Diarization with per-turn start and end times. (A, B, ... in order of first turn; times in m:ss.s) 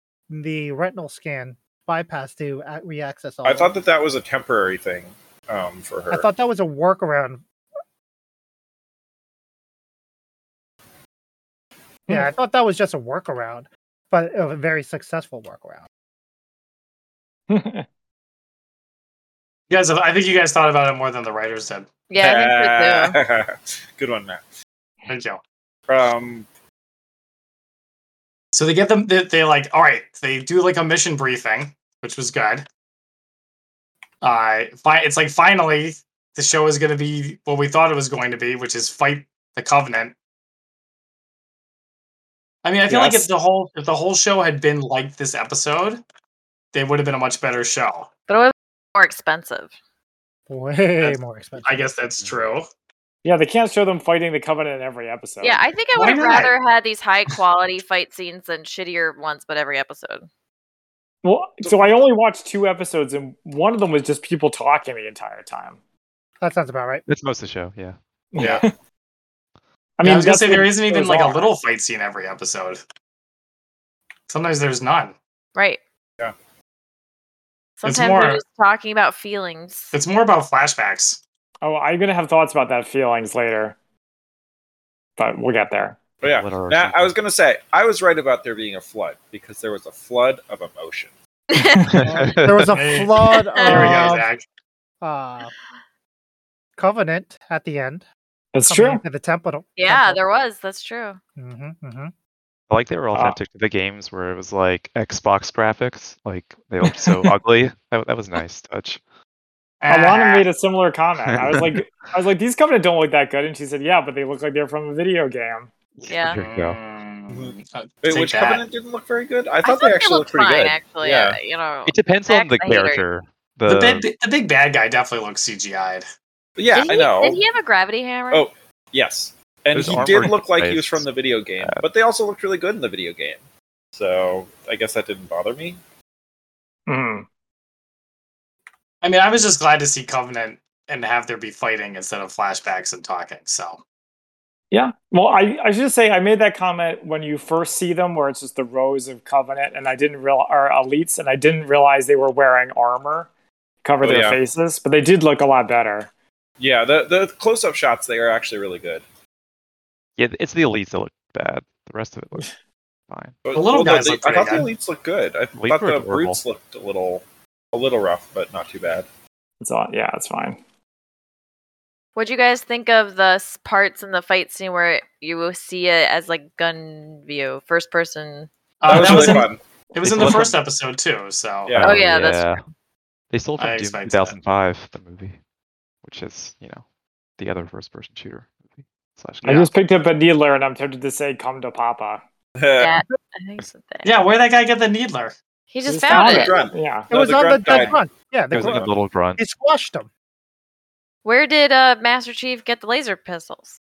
0:00.3-0:03.7 A
0:03.4-0:06.3 B
0:06.1-0:07.4 A
0:12.1-0:15.9 A
0:17.5-0:17.9 C
0:19.7-0:21.9 D
0:22.1-0:23.2 E
0:22.2-0:24.4 B
0:25.1-0:25.4 D
0:25.9-0:26.5 B
0:28.5-0:32.6 D
0:34.2-0:40.2 D
0:42.6-0:46.0 D
0:42.9-0:43.3 C
0:46.7-0:48.1 D
0:48.3-0:49.7 E
0:50.5-0:51.9 A
0:51.0-0:52.7 D
0:53.2-0:55.6 C
0:55.4-1:00.3 E
0:56.0-0:56.6 D
1:01.2-1:05.8 C
1:06.4-1:07.0 A
1:07.1-1:08.0 F
1:08.3-1:08.7 C
1:10.0-1:11.5 C
1:10.0-1:12.8 D
1:14.3-1:15.2 D
1:15.6-1:15.8 E
1:17.8-1:19.9 E
1:17.8-1:18.4 D
1:19.9-1:21.2 D
1:21.6-1:23.8 C
1:25.2-1:26.0 C
1:26.2-1:31.1 B
1:26.3-1:27.1 F
1:31.5-1:31.8 E
1:31.6-1:32.0 C
1:31.9-1:32.8 F
1:32.0-1:34.3 A
1:32.7-1:34.4 D
1:33.3-1:34.0 E
1:35.0-1:35.5 A
1:36.8-1:38.0 A
1:38.5-1:39.0 C
1:38.6-1:40.2 A
1:39.8-1:41.2 E
1:41.4-1:42.1 A
1:42.7-1:49.0 F
1:43.1-1:43.4 C
1:46.8-1:47.2 C
1:49.8-1:50.5 D
1:49.9-1:55.7 C
1:51.3-1:52.1 F
1:56.0-1:56.8 F
1:56.1-1:56.4 E
1:56.4-1:58.6 D
1:57.3-2:01.4 B
1:59.6-2:03.0 E
2:01.9-2:04.1 F
2:03.7-2:06.1 D
2:06.6-2:07.4 B
2:06.7-2:08.5 E
2:08.3-2:15.8 B
2:09.7-2:11.0 F
2:16.9-2:17.2 C
2:19.0-2:23.8 D
2:24.7-2:33.3 C
2:33.8-2:36.1 C
2:34.0-2:34.4 B
2:36.6-2:39.0 B
2:40.2-2:42.5 F
2:43.1-2:43.4 F
2:43.4-2:49.1 B
2:43.5-2:44.7 D
2:45.6-2:46.4 F
2:49.6-2:50.6 C
2:52.2-2:58.5 E
2:58.8-3:01.8 D
2:58.9-2:59.6 B
2:59.0-2:59.4 F
3:00.0-3:00.6 F
3:01.7-3:02.0 B
3:01.8-3:02.6 F
3:01.8-3:02.6 E
3:03.3-3:05.4 F
3:03.6-3:04.4 D
3:06.0-3:09.7 F
3:09.4-3:12.2 C
3:12.6-3:12.9 B
3:12.8-3:14.1 E
3:14.0-3:15.4 D
3:15.7-3:16.6 E
3:15.9-3:17.1 C
3:16.1-3:18.0 B
3:17.1-3:20.1 A
3:18.5-3:19.4 F
3:18.6-3:18.9 B
3:21.2-3:23.8 E